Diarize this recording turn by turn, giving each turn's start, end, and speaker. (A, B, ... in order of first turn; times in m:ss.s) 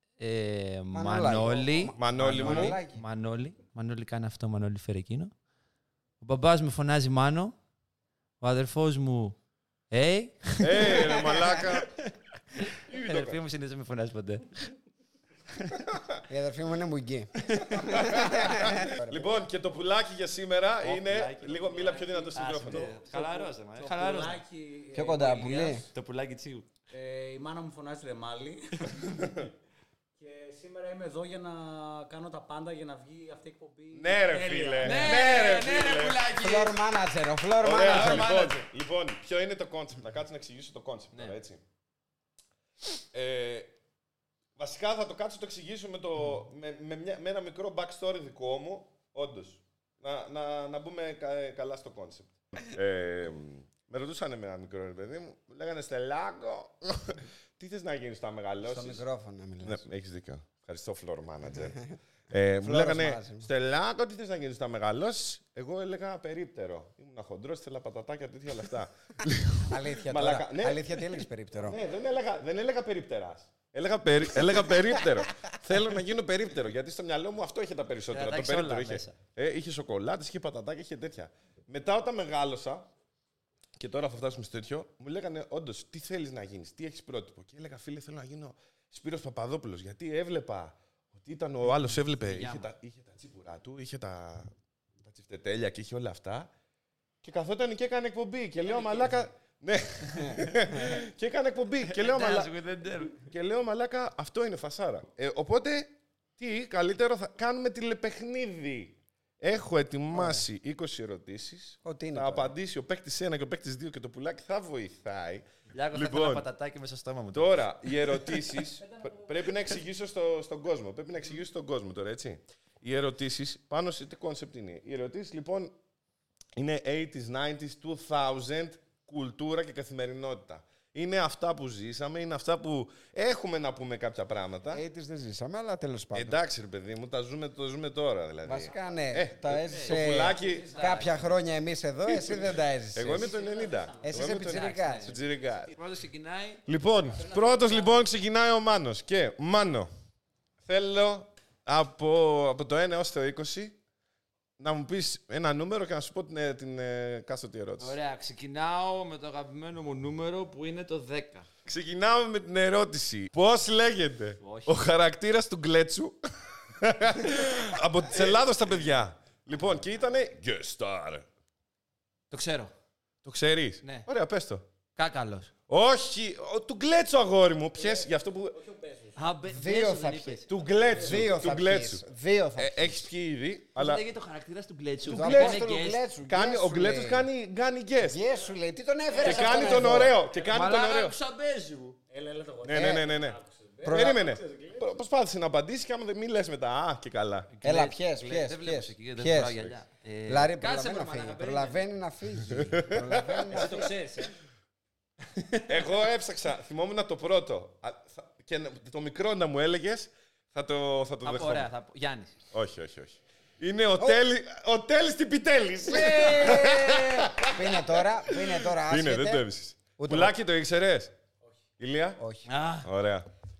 0:00.2-0:05.3 A
0:00.9-0:03.0 B
0:02.0-0:02.8 C
0:06.2-0:07.5 A
0:08.4-0:09.4 A
0:09.9-0:14.6 A
0:10.6-0:11.9 C
0:10.9-0:11.5 B
0:12.7-0:13.4 C
0:15.8-0:16.2 C
0:16.3-0:19.4 B
0:17.6-0:22.9 C
0:20.8-0:24.4 A
0:21.7-0:25.8 D
0:24.9-0:25.8 B
0:25.9-0:26.7 A
0:26.9-0:29.4 D
0:29.0-0:29.5 C
0:30.2-0:35.2 D
0:33.9-0:36.2 C
0:34.8-0:36.8 A
0:36.4-0:38.3 B
0:37.6-0:41.6 C
0:37.7-0:38.6 A
0:43.1-0:43.7 C
0:44.6-0:59.0 C
0:58.7-0:59.8 B
0:59.6-1:11.0 C
1:02.6-1:03.5 B
1:09.7-1:11.8 B
1:11.6-1:22.9 C
1:14.8-1:15.1 B
1:18.1-1:19.2 A
1:23.8-1:34.5 C
1:31.7-1:32.7 A
1:35.0-1:36.5 C
1:37.2-1:42.5 C
1:38.7-1:39.1 D
1:40.2-1:40.5 A
1:41.9-1:43.2 A
1:43.2-1:56.4 C
1:50.1-1:50.4 B
1:51.8-1:52.5 B
1:55.7-1:58.0 A
1:57.3-2:05.7 C
1:58.8-1:59.3 D
2:06.6-2:14.8 C
2:14.7-2:16.4 B
2:16.1-2:20.7 C
2:18.4-2:23.3 B
2:19.7-2:21.4 A
2:19.8-2:21.2 D
2:22.1-2:25.7 C
2:23.0-2:24.3 D
2:24.0-2:25.2 B
2:24.3-2:26.6 A
2:26.6-2:29.9 C
2:27.1-2:28.0 D
2:30.6-2:33.8 C
2:34.6-2:37.9 C
2:37.8-2:41.5 A
2:41.6-2:46.2 C
2:44.4-2:44.8 A
2:46.7-2:51.2 C
2:52.3-2:52.7 A
2:53.2-2:54.6 C
2:55.0-2:55.5 A
2:55.7-2:58.6 C
2:57.7-2:59.2 D
2:59.2-3:00.5 A
2:59.5-3:00.4 B
3:00.5-3:02.0 C
3:00.8-3:01.4 D
3:00.9-3:03.1 B
3:02.6-3:04.0 C
3:03.8-3:06.0 A
3:05.0-3:05.6 C
3:05.0-3:07.3 B
3:06.2-3:08.2 C
3:08.0-3:10.2 B
3:09.1-3:10.6 D
3:09.2-3:11.2 C
3:09.6-3:12.0 A
3:12.1-3:14.9 D
3:12.6-3:17.5 C
3:12.7-3:13.0 B
3:13.8-3:14.2 B
3:17.5-3:21.9 A
3:17.6-3:19.7 B
3:20.3-3:23.9 B
3:22.5-3:23.7 C
3:23.5-3:24.3 A
3:25.3-3:25.6 A
3:25.7-3:31.7 C
3:31.2-3:32.4 A
3:32.5-3:41.1 C
3:35.8-3:39.4 B
3:40.0-3:40.3 B
3:41.8-3:42.2 C
3:42.2-3:42.4 B
3:42.4-3:42.9 A
3:42.8-3:43.3 C